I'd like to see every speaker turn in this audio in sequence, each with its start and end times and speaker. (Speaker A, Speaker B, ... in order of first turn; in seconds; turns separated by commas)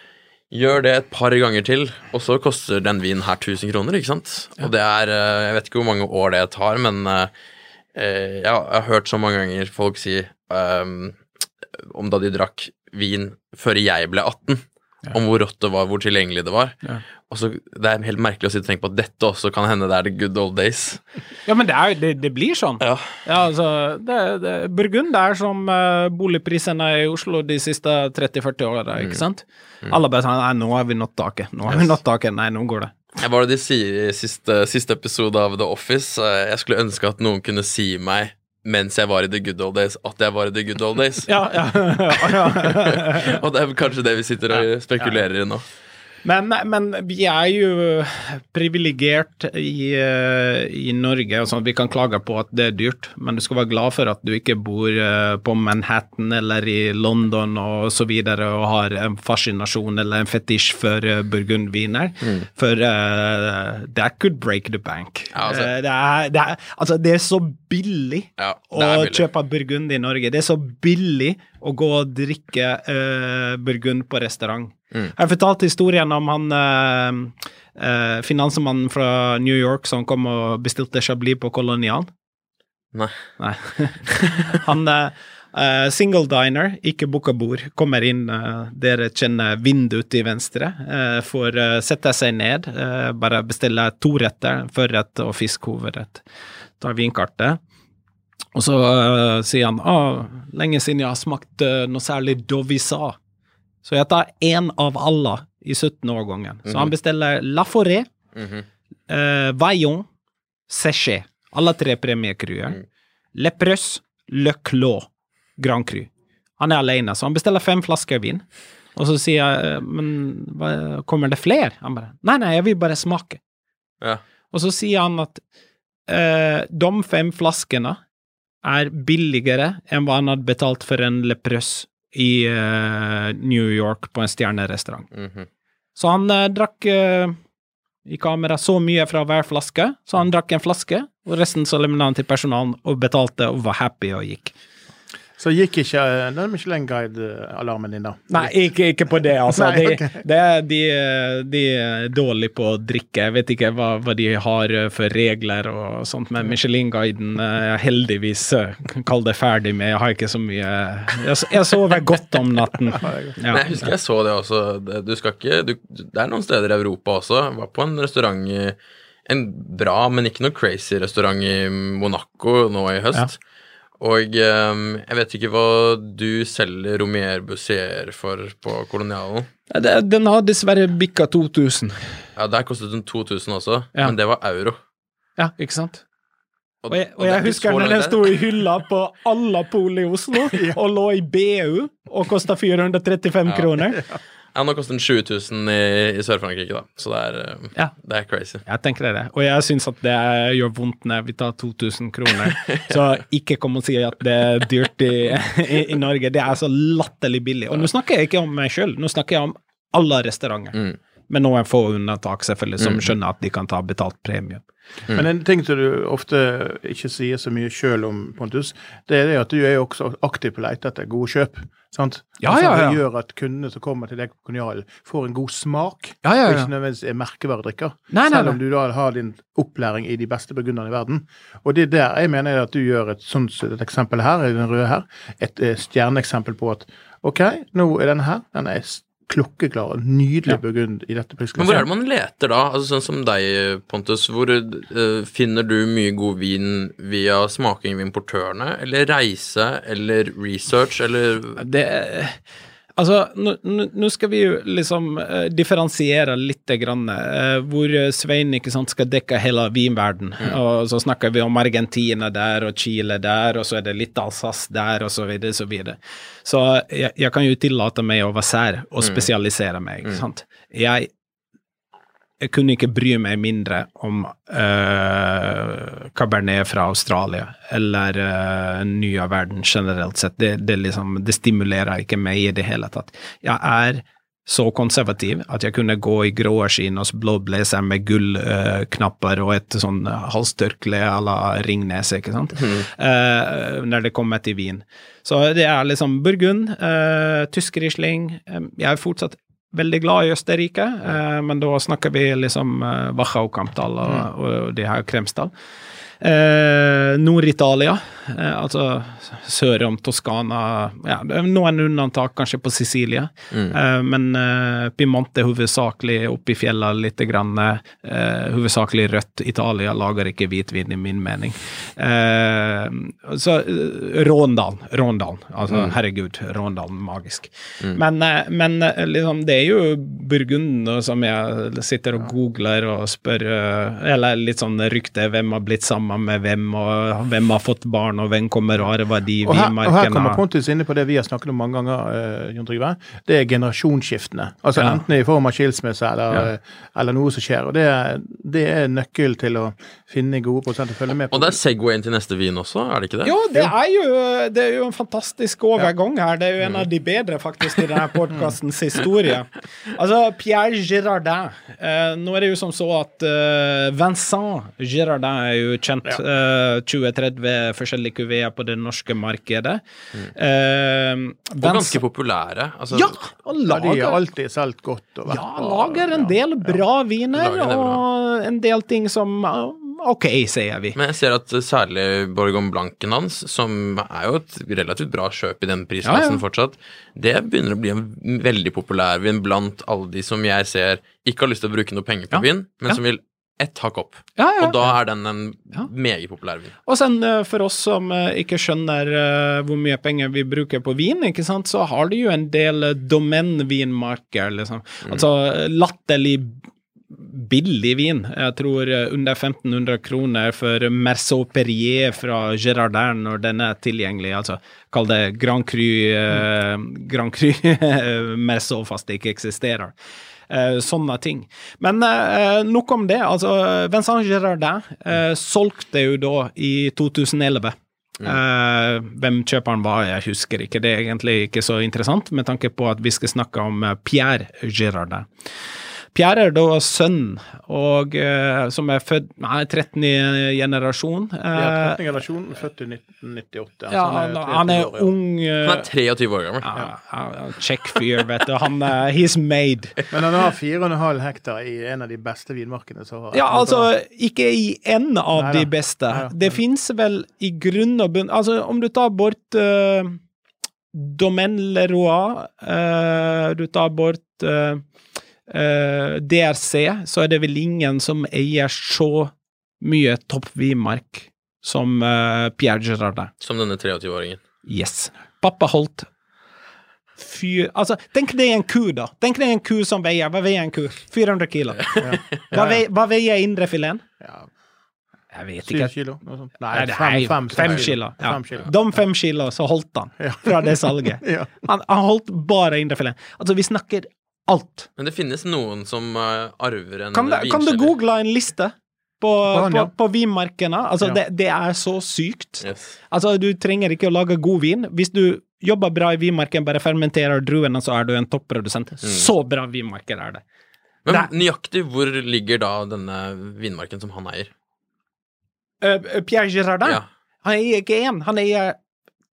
Speaker A: 0.5-7.3, Speaker A: 8.0-11.2, Speaker A: 11.8-16.8, Speaker A: 17.3-21.0, Speaker B: 21.5-33.0, Speaker A: 22.8-23.2, Speaker A: 33.2-41.4, Speaker B: 41.3-43.4, Speaker A: 42.1-45.6, Speaker B: 44.5-45.2, Speaker B: 46.2-82.1, Speaker A: 65.3-65.7, Speaker A: 68.4-69.3, Speaker B: 83.4-96.2, Speaker B: 96.8-97.6, Speaker B: 98.5-103.2, Speaker B: 103.8-108.1, Speaker A: 106.7-106.9, Speaker A: 108.3-108.7, Speaker B: 109.1-110.1, Speaker B: 110.7-112.8, Speaker B: 113.3-118.4, Speaker B: 119.0-123.4, Speaker B: 124.5-125.4, Speaker B: 126.1-128.0, Speaker B: 128.6-135.1, Speaker A: 135.1-135.5, Speaker B: 136.0-137.4, Speaker B: 138.1-144.5, Speaker C: 145.4-148.6, Speaker B: 148.3-163.9, Speaker C: 149.2-150.2, Speaker C: 162.9-163.3, Speaker A: 163.5-173.4, Speaker A: 174.0-179.5, Speaker B: 179.7-182.1, Speaker A: 182.4-184.8, Speaker B: 185.4-186.0, Speaker A: 186.8-188.4, Speaker B: 186.9-194.0, Speaker A: 194.6-198.6, Speaker B: 198.7-210.8, Speaker B: 211.3-214.6, Speaker A: 212.8-213.1, Speaker C: 215.1-241.8, Speaker B: 222.4-223.0, Speaker B: 226.2-226.7, Speaker B: 228.1-228.6, Speaker A: 241.6-251.6, Speaker B: 251.6-252.4, Speaker B: 253.0-271.1, Speaker A: 269.0-269.3, Speaker B: 272.4-305.5, Speaker B: 306.2-340.4, Speaker A: 313.5-313.8, Speaker A: 325.7-325.9, Speaker C: 339.4-351.6, Speaker A: 351.3-353.3, Speaker B: 353.2-369.8, Speaker B: 370.4-372.0, Speaker A: 371.6-373.2, Speaker B: 372.9-374.2, Speaker C: 373.6-376.4, Speaker B: 375.3-381.0, Speaker A: 377.3-378.0, Speaker A: 380.9-396.7, Speaker B: 386.0-386.4, Speaker B: 392.3-393.0, Speaker B: 394.4-394.9, Speaker B: 396.9-419.9, Speaker B: 420.5-435.3, Speaker B: 436.1-442.0, Speaker C: 441.5-445.1, Speaker B: 443.9-445.9, Speaker A: 445.6-446.8, Speaker B: 446.6-449.9, Speaker C: 450.1-453.9, Speaker B: 453.3-460.2, Speaker C: 455.4-456.6, Speaker B: 460.9-464.8, Speaker B: 465.5-473.3, Speaker A: 473.4-474.4, Speaker B: 474.7-476.1, Speaker B: 477.2-484.0, Speaker A: 481.8-482.4, Speaker C: 482.0-482.8, Speaker C: 484.2-484.5, Speaker B: 485.3-486.0, Speaker C: 485.7-488.7, Speaker B: 486.7-494.9, Speaker C: 490.2-491.7, Speaker A: 495.0-498.0, Speaker B: 497.1-510.4, Speaker C: 499.5-499.9, Speaker A: 502.6-503.0, Speaker A: 509.0-509.3, Speaker A: 511.1-514.5, Speaker B: 515.8-518.8